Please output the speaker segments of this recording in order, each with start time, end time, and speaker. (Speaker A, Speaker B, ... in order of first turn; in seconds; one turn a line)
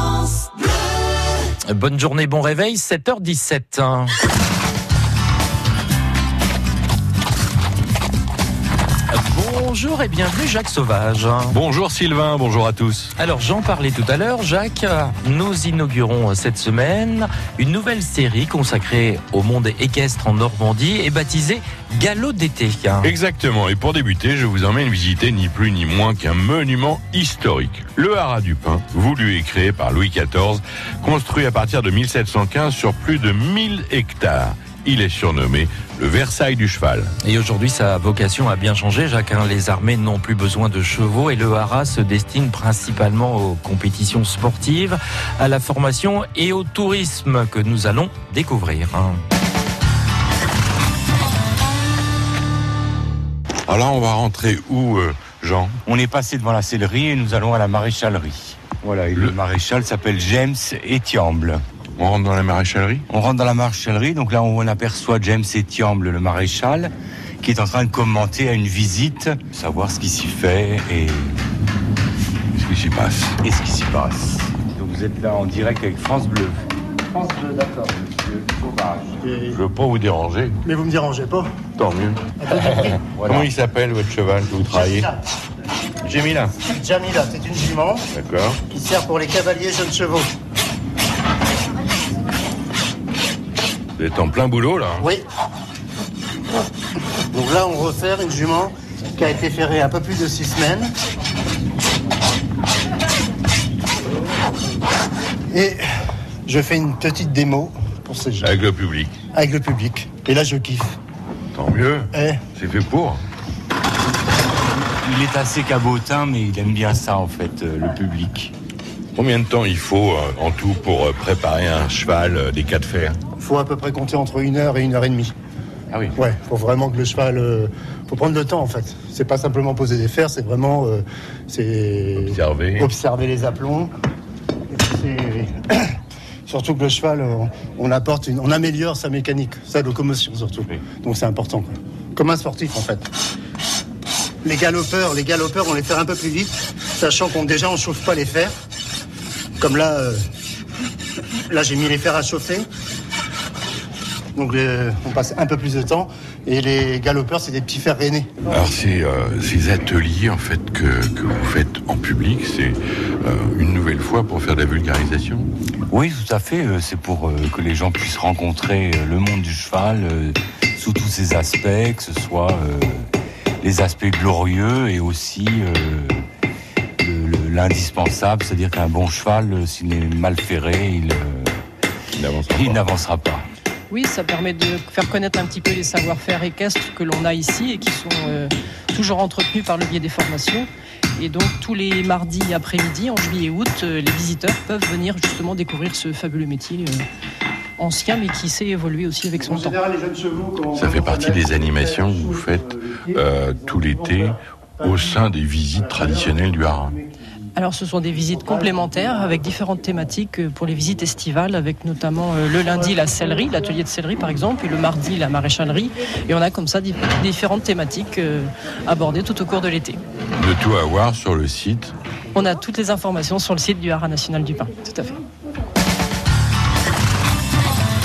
Speaker A: 1.7-4.1
Speaker A: 9.1-11.6
Speaker B: 11.5-13.1
Speaker A: 13.2-23.1
Speaker B: 23.0-37.1
Speaker A: 37.2-49.2
Speaker B: 53.7-55.8
Speaker C: 55.9-61.6
Speaker B: 62.0-63.0
Speaker C: 63.1-71.4
Speaker B: 72.5-73.4
Speaker C: 73.4-76.6
Speaker D: 77.1-77.9
Speaker C: 77.8-79.3
Speaker D: 79.2-79.6
Speaker B: 79.5-80.6
Speaker D: 80.6-81.5
Speaker B: 81.8-82.3
Speaker D: 82.4-83.0
Speaker C: 82.9-83.5
Speaker B: 83.2-85.1
Speaker D: 84.6-85.2
Speaker B: 86.0-86.5
Speaker D: 86.6-88.1
Speaker B: 88.1-88.6
Speaker D: 88.7-90.3
Speaker B: 94.0-95.1
Speaker D: 95.0-95.2
Speaker D: 97.3-100.9
Speaker D: 105.5-105.8
Speaker D: 106.5-108.5
Speaker B: 108.4-109.2
Speaker D: 109.3-111.0
Speaker B: 111.5-113.2
Speaker D: 112.1-112.4
Speaker C: 114.8-118.5
Speaker B: 119.2-123.2
Speaker D: 123.4-125.3
Speaker D: 126.2-133.9
Speaker B: 132.2-132.9
Speaker D: 134.7-135.9
Speaker D: 136.5-143.1
Speaker D: 144.4-148.5
Speaker D: 149.6-150.2
Speaker D: 151.5-152.7
Speaker D: 154.3-158.3
Speaker B: 158.5-165.5
Speaker C: 165.9-173.1
Speaker C: 173.6-176.2
Speaker C: 177.0-181.6
Speaker B: 182.1-182.8
Speaker C: 182.5-183.4
Speaker E: 183.9-197.0
Speaker E: 197.8-199.8
Speaker D: 199.3-205.2
Speaker B: 200.7-207.0
Speaker D: 205.7-207.1
Speaker E: 207.5-220.0
Speaker D: 208.4-208.7
Speaker B: 220.4-221.9
Speaker E: 222.3-225.2